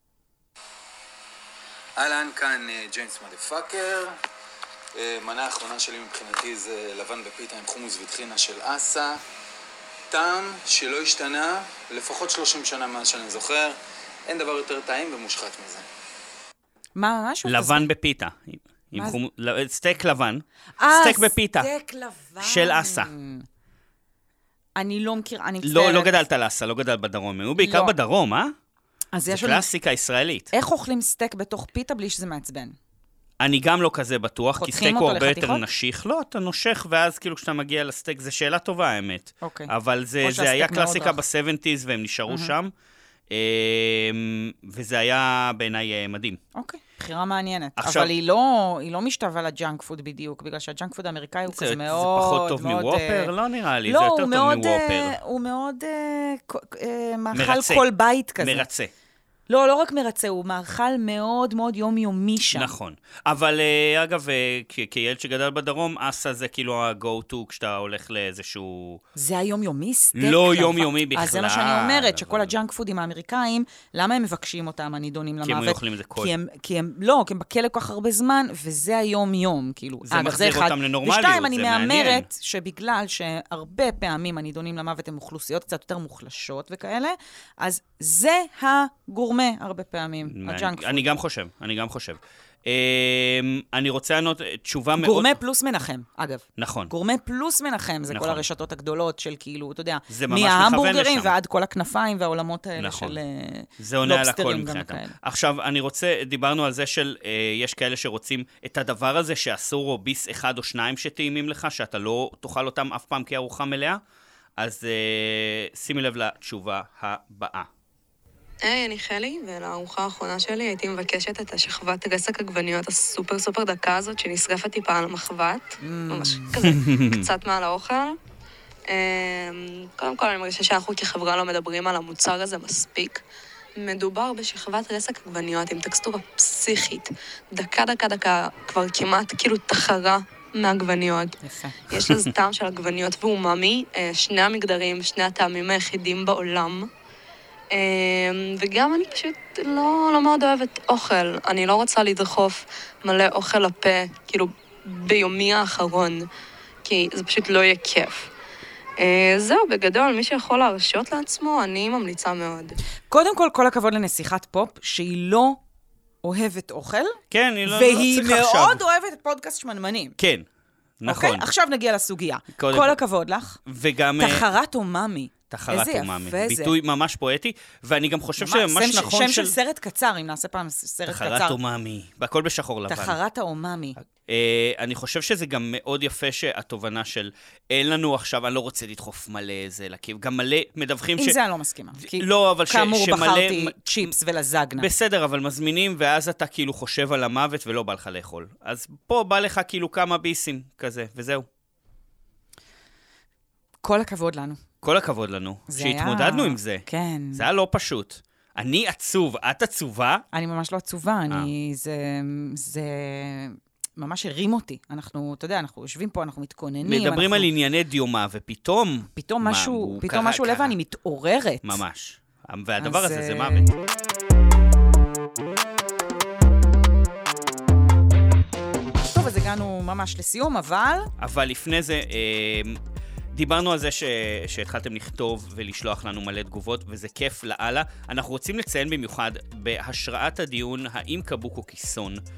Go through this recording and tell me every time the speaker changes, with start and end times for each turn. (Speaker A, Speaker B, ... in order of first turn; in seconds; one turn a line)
Speaker A: 2.0-4.2
Speaker A: 5.0-9.2
Speaker A: 10.1-15.9
Speaker B: 17.0-17.9
Speaker C: 17.4-21.7
Speaker B: 20.8-23.5
Speaker C: 22.4-23.1
Speaker B: 24.8-26.1
Speaker C: 25.6-28.5
Speaker B: 27.6-27.9
Speaker B: 29.1-29.7
Speaker C: 29.3-30.5
Speaker B: 30.5-32.8
Speaker C: 33.4-42.7
Speaker B: 34.6-35.6
Speaker B: 39.4-39.7
Speaker B: 40.2-41.2
Speaker C: 43.3-46.4
Speaker B: 46.5-53.3
Speaker C: 47.8-48.1
Speaker C: 51.5-55.2
Speaker B: 53.9-58.7
Speaker C: 57.3-58.9
Speaker B: 59.5-62.7
Speaker C: 62.5-69.0
Speaker B: 69.2-91.1
Speaker C: 70.2-72.5
Speaker C: 75.4-76.3
Speaker C: 80.0-82.3
Speaker C: 90.3-95.3
Speaker B: 95.0-105.2
Speaker C: 96.6-96.9
Speaker C: 98.1-98.5
Speaker C: 100.1-101.3
Speaker C: 102.8-103.2
Speaker C: 103.8-114.0
Speaker C: 114.6-117.7
Speaker D: 118.6-128.2
Speaker B: 125.8-126.6
Speaker C: 126.6-127.3
Speaker D: 128.9-133.2
Speaker D: 133.8-141.4
Speaker B: 141.4-141.8
Speaker D: 141.9-146.9
Speaker C: 142.0-142.3
Speaker D: 147.7-156.3
Speaker D: 156.8-158.3
Speaker D: 159.0-162.8
Speaker B: 163.1-165.6
Speaker B: 166.2-170.2
Speaker C: 167.3-168.8
Speaker C: 170.2-170.5
Speaker C: 171.0-171.5
Speaker B: 171.1-173.6
Speaker C: 172.6-173.0
Speaker C: 173.7-174.4
Speaker B: 174.2-176.8
Speaker C: 175.5-179.6
Speaker B: 178.4-181.6
Speaker C: 181.1-183.2
Speaker B: 182.9-184.0
Speaker C: 184.2-191.4
Speaker B: 191.2-194.9
Speaker C: 192.0-194.1
Speaker C: 194.8-201.5
Speaker B: 203.8-204.6
Speaker C: 204.8-210.2
Speaker B: 205.7-207.4
Speaker B: 210.3-217.5
Speaker C: 216.8-220.8
Speaker B: 219.2-221.8
Speaker C: 221.6-223.7
Speaker B: 222.8-223.7
Speaker B: 229.0-231.1
Speaker C: 231.2-232.8
Speaker C: 233.3-242.2